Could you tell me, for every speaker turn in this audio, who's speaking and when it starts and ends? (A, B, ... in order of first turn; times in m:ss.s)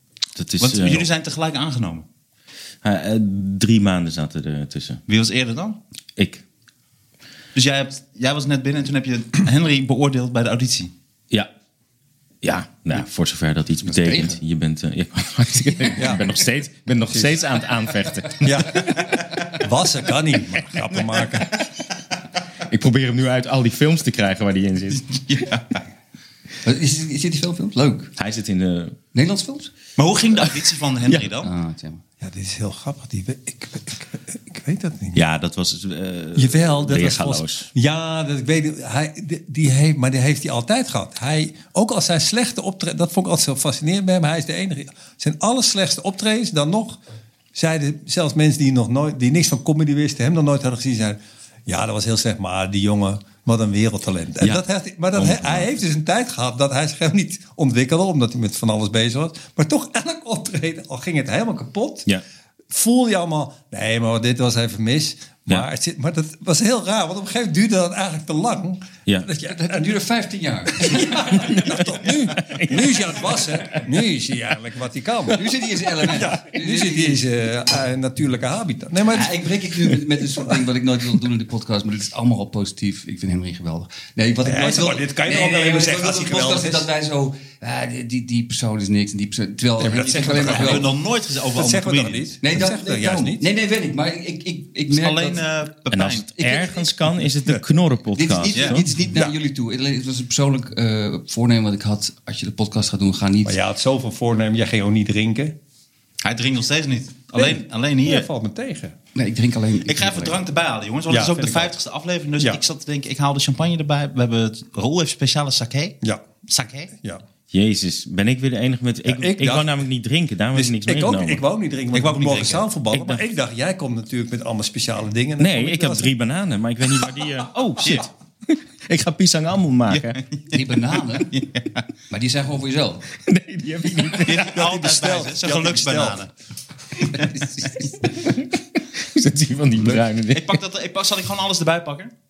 0:00.4-0:01.1 A
0:00.6-0:02.0 B
0:02.8-0:05.0 A
0:05.1-0:05.8 B
0:06.2-0:06.4 A
0:07.5-0:10.9 B
0:12.4-0:18.8 A
0:13.8-0:14.4 C
0:16.0-0:16.2 D
0:18.4-0:21.6 D
0:22.7-0:25.1 A
0:25.3-0:25.6 B
0:26.6-0:28.1 C
0:28.2-0:29.0 A
0:29.1-0:29.7 C
0:30.0-0:31.5 B
0:31.4-0:32.0 C
0:32.2-0:35.2 D
0:35.1-0:37.7 A
0:36.4-0:47.0 D
0:47.5-1:02.1 D
0:55.1-0:55.7 A
1:02.7-1:09.9 D
1:09.4-1:11.4 C
1:10.7-1:20.0 D
1:11.3-1:13.8 A
1:15.3-1:17.2 C
1:19.0-1:30.9 C
1:24.4-1:26.9 D
1:29.8-1:30.9 D
1:30.2-1:32.3 B
1:31.5-1:33.4 D
1:32.4-1:35.4 C
1:34.9-1:36.3 B
1:35.9-1:38.9 A
1:36.3-1:36.9 C
1:38.1-1:43.6 C
1:38.5-1:38.8 B
1:43.4-1:45.6 D
1:46.2-1:48.3 B
1:47.3-1:49.0 D
1:49.1-1:50.4 C
1:49.8-1:56.0 B
1:51.1-1:51.8 D
1:56.5-1:56.9 B
1:57.0-1:57.2 D
1:57.5-2:01.4 A
1:59.0-1:59.8 D
2:00.5-2:06.1 D
2:01.9-2:02.7 B
2:02.9-2:03.2 A
2:05.4-2:10.2 A
2:07.8-2:08.1 B
2:09.9-2:10.6 B
2:10.5-2:11.3 C
2:11.3-2:11.8 B
2:12.1-2:13.0 C
2:13.2-2:14.5 A
2:14.2-2:16.3 B
2:14.4-2:16.2 D
2:17.1-2:17.8 C
2:18.1-2:20.6 A
2:20.3-2:22.1 B